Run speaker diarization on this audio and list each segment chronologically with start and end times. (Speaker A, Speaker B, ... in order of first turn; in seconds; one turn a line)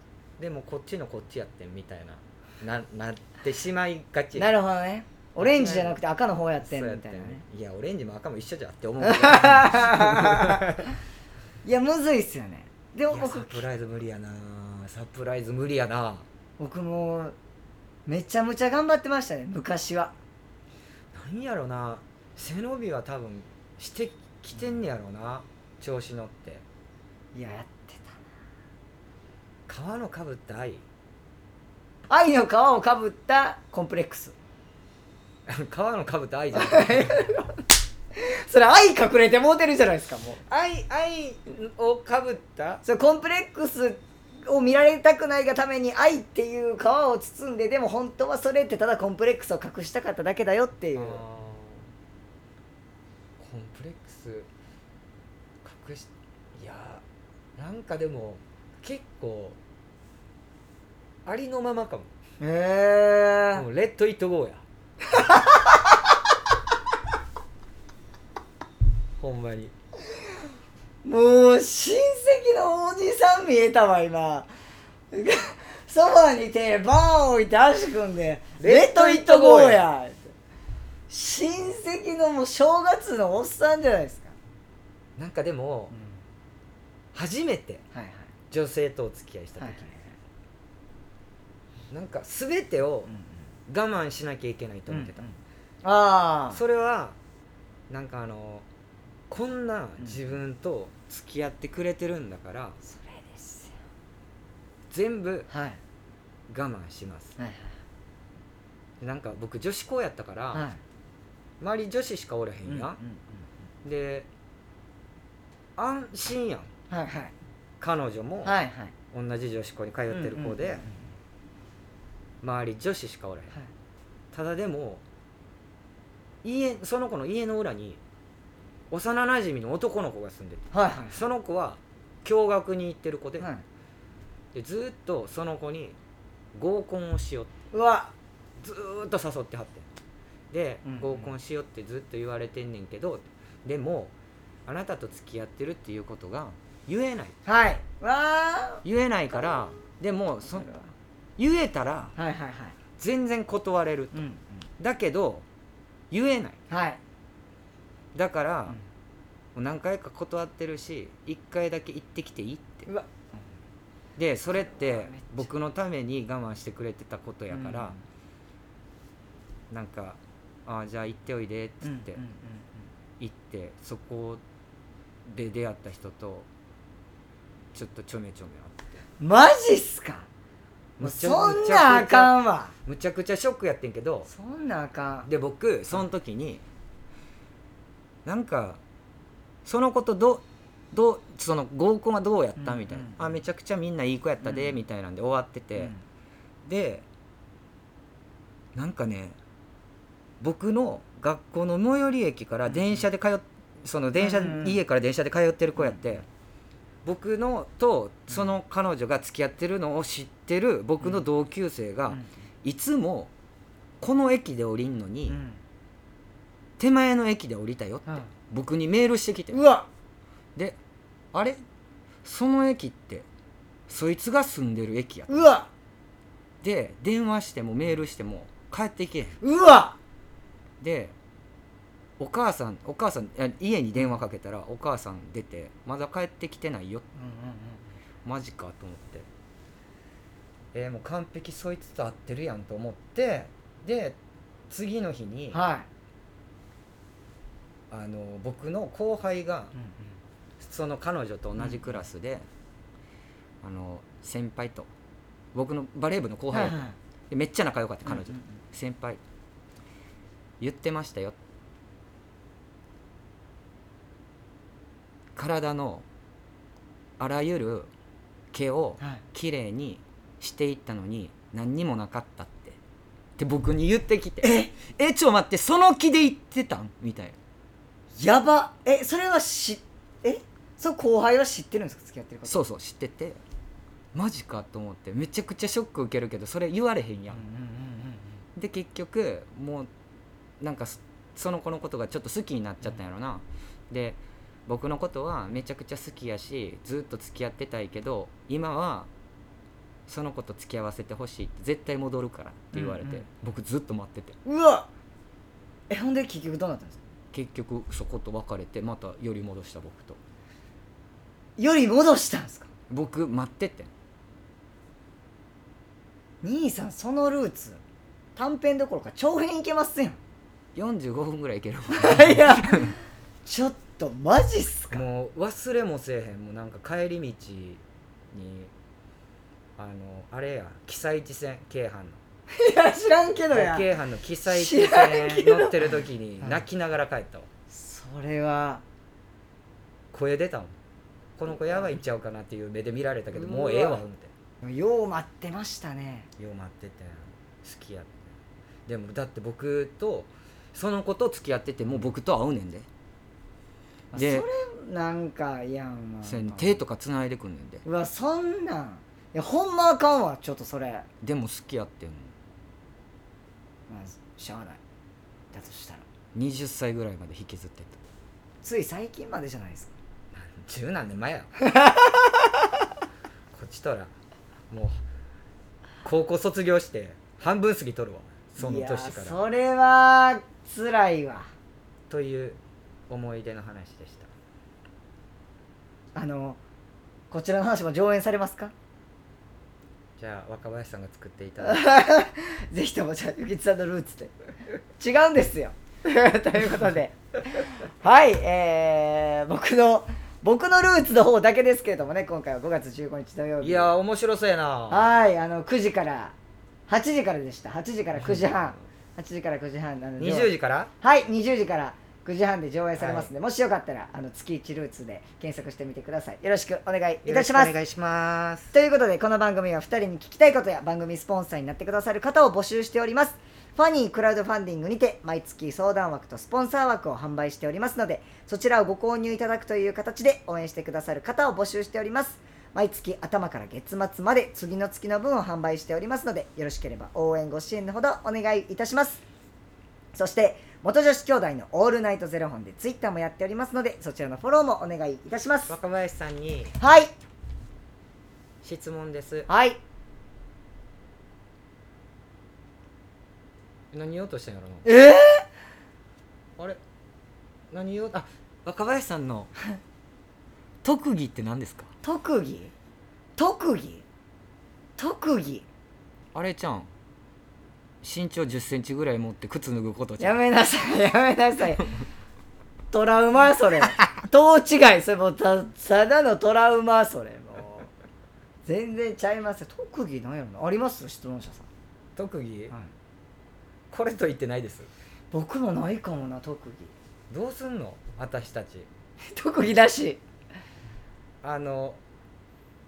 Speaker A: 0.4-4.5
Speaker B: 4.3-7.4
Speaker A: 5.4-6.0
Speaker A: 6.6-10.9
Speaker B: 9.0-10.7
Speaker B: 11.6-13.7
Speaker A: 13.1-16.2
Speaker B: 16.6-17.4
Speaker B: 18.1-20.1
Speaker A: 21.1-26.6
Speaker B: 27.3-28.2
Speaker A: 29.7-30.8
Speaker B: 32.1-34.3
Speaker A: 35.5-37.3
Speaker B: 36.5-37.6
Speaker B: 38.1-40.4
Speaker A: 40.5-42.8
Speaker B: 42.8-51.2
Speaker A: 51.0-51.9
Speaker A: 53.4-54.5
Speaker A: 55.6-57.0
Speaker A: 57.6-59.6
Speaker A: 61.3-62.1
Speaker B: 62.4-63.6
Speaker A: 63.5-64.6
Speaker B: 65.2-65.8
Speaker A: 69.2-69.7
Speaker B: 71.0-74.5
Speaker B: 75.1-80.3
Speaker A: 78.6-79.8
Speaker B: 81.1-84.3
Speaker A: 85.2-85.9
Speaker B: 85.9-86.2
Speaker A: 87.1-87.8
Speaker B: 87.9-88.3
Speaker A: 88.5-89.9
Speaker B: 89.6-90.1
Speaker A: 91.9-93.1
Speaker B: 93.1-93.4
Speaker A: 93.7-95.2
Speaker B: 94.9-96.6
Speaker A: 96.5-97.2
Speaker A: 97.9-98.7
Speaker A: 99.3-102.8
Speaker B: 102.8-103.8
Speaker A: 104.9-105.5
Speaker B: 105.5-105.8
Speaker A: 106.5-107.4
Speaker B: 107.4-107.8
Speaker A: 109.0-110.7
Speaker B: 110.5-110.8
Speaker A: 111.6-113.0
Speaker B: 112.7-113.4
Speaker A: 113.8-114.3
Speaker A: 115.8-116.7
Speaker B: 116.9-117.3
Speaker A: 117.8-118.6
Speaker B: 118.4-118.9
Speaker A: 119.1-120.8
Speaker B: 120.1-121.1
Speaker A: 122.4-123.5
Speaker A: 124.3-125.0
Speaker A: 126.4-128.0
Speaker A: 128.9-133.5
Speaker B: 130.7-131.2
Speaker B: 133.4-133.6
Speaker A: 134.5-136.0
Speaker A: 136.6-137.5
Speaker B: 137.7-138.1
Speaker A: 138.6-139.9
Speaker A: 140.5-144.1
Speaker B: 140.8-141.3
Speaker A: 144.7-147.3
Speaker B: 147.5-148.8
Speaker A: 148.8-150.7
Speaker B: 150.5-150.9
Speaker A: 151.4-152.1
Speaker B: 152.2-152.8
Speaker A: 153.0-154.2
Speaker B: 154.1-154.6
Speaker A: 154.8-155.4
Speaker A: 156.1-156.6
Speaker B: 156.7-157.0
Speaker A: 158.2-158.8
Speaker A: 159.6-162.9
Speaker A: 164.2-167.9
Speaker B: 164.5-165.5
Speaker B: 167.5-168.0
Speaker A: 169.7-172.2
Speaker B: 171.8-172.7
Speaker A: 173.2-174.4
Speaker A: 175.3-176.5
Speaker A: 177.7-178.8
Speaker B: 179.2-180.3
Speaker A: 181.0-184.3
Speaker B: 181.0-182.7
Speaker B: 184.3-185.3
Speaker A: 185.3-186.6
Speaker A: 188.2-188.8
Speaker A: 189.7-195.9
Speaker B: 192.6-193.4
Speaker B: 194.4-194.8
Speaker A: 196.7-197.1
Speaker A: 198.8-199.4
Speaker A: 200.4-206.2
Speaker B: 202.7-203.1
Speaker B: 204.2-204.8
Speaker B: 205.8-206.0
Speaker A: 207.1-213.3
Speaker A: 214.0-215.4
Speaker B: 215.3-215.6
Speaker A: 216.8-219.6
Speaker B: 219.5-219.9
Speaker A: 221.3-221.6
Speaker A: 222.2-223.3
Speaker A: 223.9-225.5
Speaker B: 225.3-225.7
Speaker A: 226.6-229.4
Speaker B: 229.4-230.0
Speaker A: 230.8-231.2
Speaker A: 232.2-237.1
Speaker B: 237.2-237.8
Speaker A: 238.2-239.3
Speaker A: 240.7-244.2
Speaker A: 244.7-245.6
Speaker B: 245.5-245.9
Speaker A: 247.9-249.7
Speaker B: 249.8-250.2
Speaker A: 250.6-252.4
Speaker B: 251.6-252.0
Speaker A: 253.6-254.9
Speaker A: 255.5-259.2
Speaker B: 256.5-257.0
Speaker B: 258.1-258.4
Speaker A: 260.6-261.4
Speaker A: 265.4-266.1
Speaker A: 267.2-267.9
Speaker A: 268.5-272.8
Speaker A: 273.4-277.4
Speaker B: 274.4-274.7
Speaker B: 278.2-282.6
Speaker A: 282.5-283.4
Speaker A: 284.1-287.4
Speaker B: 287.3-288.4
Speaker A: 288.6-289.9
Speaker A: 290.6-299.1
Speaker A: 300.1-304.4
Speaker B: 302.7-303.3
Speaker B: 304.4-304.9
Speaker B: 305.9-307.0
Speaker A: 307.3-310.2
Speaker B: 311.6-312.7
Speaker A: 312.9-313.9
Speaker B: 316.4-317.8
Speaker B: 318.4-320.2
Speaker A: 320.8-322.9
Speaker B: 321.9-325.1
Speaker A: 324.9-328.7
Speaker A: 329.8-332.2
Speaker B: 332.6-333.9
Speaker A: 333.5-337.5
Speaker B: 334.5-336.6
Speaker B: 337.7-338.8
Speaker A: 340.1-340.8
Speaker A: 341.4-344.3
Speaker B: 341.5-342.0
Speaker B: 343.3-344.0
Speaker B: 344.6-346.3
Speaker A: 346.4-348.2
Speaker A: 348.9-352.9
Speaker B: 354.1-356.8
Speaker A: 354.1-354.5
Speaker A: 356.2-357.8
Speaker B: 357.9-361.1
Speaker A: 361.2-362.3
Speaker B: 363.9-364.8
Speaker B: 365.5-366.1
Speaker A: 366.3-368.0
Speaker B: 368.6-369.9
Speaker A: 370.3-371.5
Speaker B: 371.6-372.6
Speaker A: 373.5-374.1
Speaker A: 374.7-375.0
Speaker A: 376.0-379.4
Speaker B: 378.6-381.5
Speaker A: 382.1-382.6
Speaker A: 383.1-384.3
Speaker B: 386.1-386.6
Speaker B: 387.3-388.7
Speaker A: 390.2-391.9
Speaker B: 391.6-394.3
Speaker B: 395.0-403.9
Speaker A: 403.6-405.1
Speaker B: 404.9-406.3
Speaker B: 406.9-417.7
Speaker A: 408.2-408.6
Speaker A: 410.2-410.9
Speaker A: 413.0-413.3
Speaker A: 417.2-418.7
Speaker B: 418.7-439.2
Speaker B: 440.1-445.8
Speaker A: 445.7-446.8
Speaker B: 446.8-447.1
Speaker A: 448.6-449.5
Speaker B: 449.5-449.8
Speaker A: 453.9-454.9
Speaker B: 454.9-455.5
Speaker A: 457.7-459.5
Speaker A: 460.8-461.9
Speaker B: 462.0-462.7
Speaker B: 463.4-464.0
Speaker B: 465.0-465.7
Speaker A: 466.3-466.9
Speaker A: 468.0-470.4
Speaker B: 470.2-471.8
Speaker B: 472.9-477.9
Speaker B: 478.6-481.7
Speaker A: 482.2-482.7
Speaker A: 483.9-484.9
Speaker B: 485.3-486.9
Speaker A: 487.3-488.9
Speaker B: 489.3-490.2
Speaker A: 491.4-492.0